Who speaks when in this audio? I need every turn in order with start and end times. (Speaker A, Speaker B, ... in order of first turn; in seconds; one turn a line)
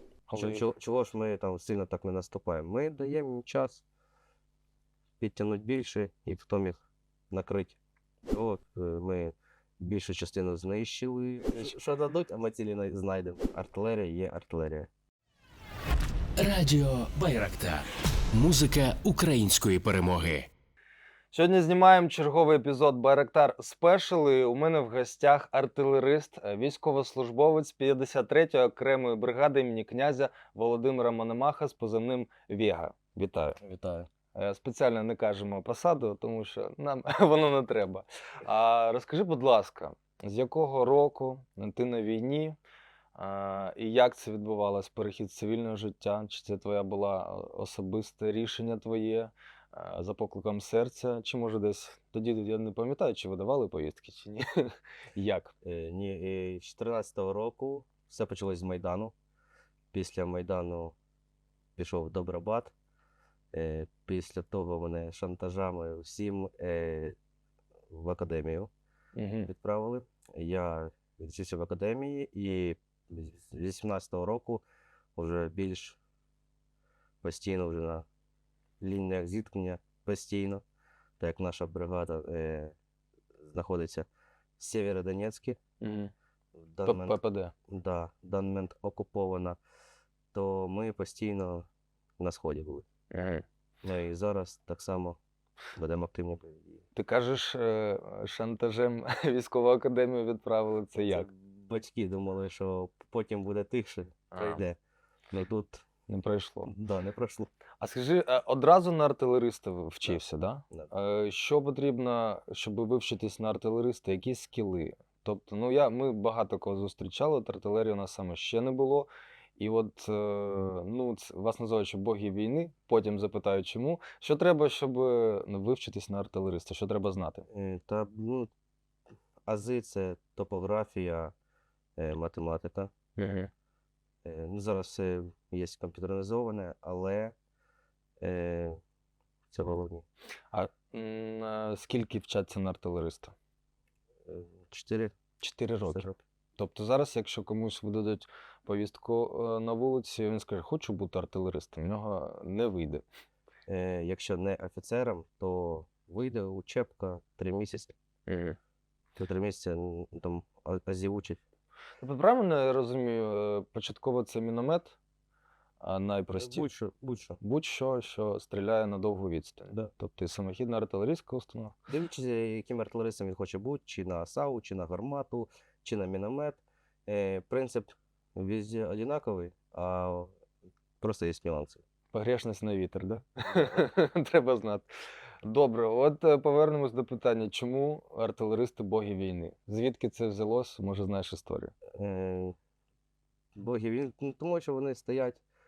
Speaker A: 0.3-0.6
Speaker B: 0.4-3.8
Speaker B: 5.2-7.8
Speaker B: 8.3-14.9
Speaker C: 16.4-20.5
Speaker A: 21.3-33.6
Speaker B: 33.6-34.1
Speaker A: 34.3-42.6
Speaker A: 43.1-55.5
Speaker B: 55.6-59.1
Speaker B: 59.9-60.9
Speaker B: 61.8-62.7
Speaker B: 63.5-67.2
Speaker B: 67.9-68.7
Speaker A: 69.1-69.5
Speaker B: 69.5-74.6
Speaker B: 75.2-76.0
Speaker B: 77.2-78.0
Speaker B: 78.8-80.6
Speaker B: 81.2-82.7
Speaker B: 83.4-84.1
Speaker B: 84.6-85.6
Speaker A: 85.8-86.1
Speaker B: 86.5-89.6
Speaker A: 86.8-87.5
Speaker B: 90.3-91.7
Speaker B: 92.2-92.8
Speaker A: 93.1-93.4
Speaker B: 93.8-95.2
Speaker B: 95.8-96.8
Speaker A: 96.9-101.3
Speaker B: 101.0-104.8
Speaker A: 104.3-104.6
Speaker B: 105.3-105.8
Speaker A: 106.1-106.7
Speaker B: 106.7-107.5
Speaker A: 107.8-127.5
Speaker B: 127.5-128.5
Speaker B: 129.4-131.3
Speaker B: 132.0-132.9
Speaker A: 133.2-133.5
Speaker B: 134.2-137.3
Speaker B: 138.2-138.8
Speaker B: 139.5-140.1
Speaker A: 140.5-143.3
Speaker B: 144.3-145.1
Speaker A: 145.4-153.0
Speaker B: 145.9-146.2
Speaker B: 153.7-157.9
Speaker A: 158.3-158.6
Speaker B: 159.2-161.4
Speaker A: 162.0-164.9
Speaker A: 165.8-166.7
Speaker B: 166.4-167.4
Speaker A: 167.4-171.8
Speaker B: 171.9-180.3
Speaker B: 181.0-181.8
Speaker A: 182.1-184.9
Speaker A: 185.4-191.7
Speaker B: 191.9-192.5
Speaker B: 193.6-195.4